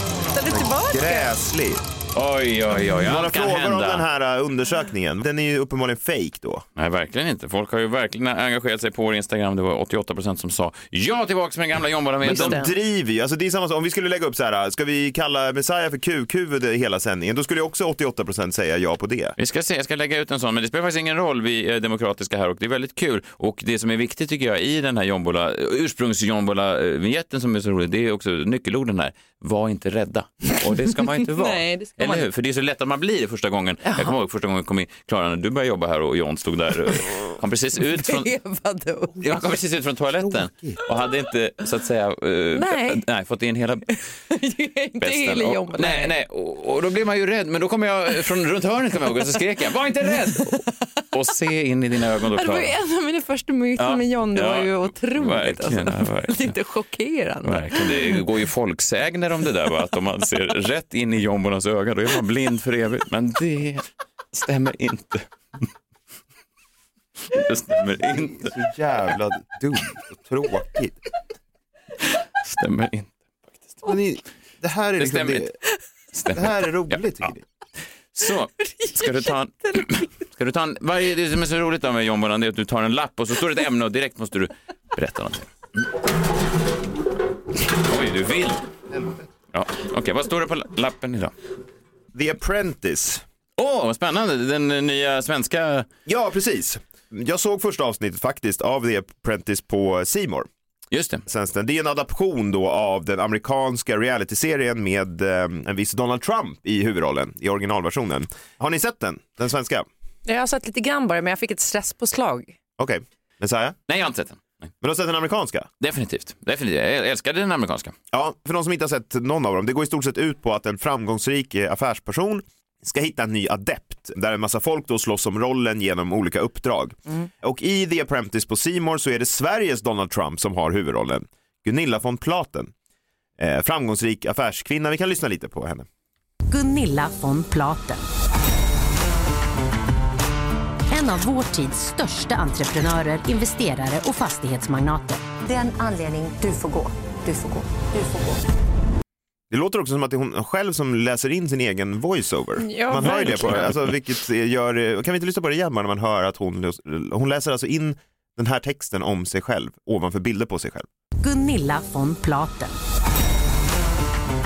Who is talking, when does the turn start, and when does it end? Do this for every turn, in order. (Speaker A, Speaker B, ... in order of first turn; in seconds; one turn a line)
Speaker A: 0.3-1.3
Speaker B: 0.5-1.8
Speaker C: 2.1-4.0
Speaker B: 3.0-6.6
Speaker C: 6.8-12.7
Speaker B: 12.2-19.4
Speaker A: 12.4-12.7
Speaker C: 19.4-38.3
Speaker A: 31.2-32.3
Speaker A: 33.8-34.1
Speaker A: 38.0-39.1
Speaker C: 39.2-44.0
Speaker B: 40.2-40.8
Speaker A: 42.5-43.0
Speaker A: 43.9-46.1
Speaker C: 45.0-52.7
Speaker A: 52.3-58.2
Speaker C: 53.8-56.6
Speaker C: 57.4-65.3
Speaker C: 67.3-68.5
Speaker B: 68.0-71.0
Speaker C: 72.4-73.8
Speaker B: 73.8-75.5
Speaker C: 75.0-75.5
Speaker C: 76.1-77.3
Speaker B: 76.3-77.4
Speaker C: 78.1-85.9
Speaker A: 78.6-80.1
Speaker C: 87.6-88.6
Speaker C: 89.5-91.3
Speaker B: 92.1-93.2
Speaker C: 93.6-95.9
Speaker B: 96.1-100.5
Speaker C: 100.9-101.2
Speaker B: 101.2-109.9
Speaker A: 110.2-112.6
Speaker B: 112.8-113.8
Speaker C: 113.9-114.7
Speaker B: 114.8-115.7
Speaker C: 115.8-117.9
Speaker B: 118.1-132.7
Speaker B: 133.4-135.9
Speaker D: 136.5-138.0
Speaker D: 140.9-145.3
Speaker E: 145.4-148.4
Speaker B: 149.5-160.9
Speaker A: 152.6-153.8
Speaker D: 161.2-162.7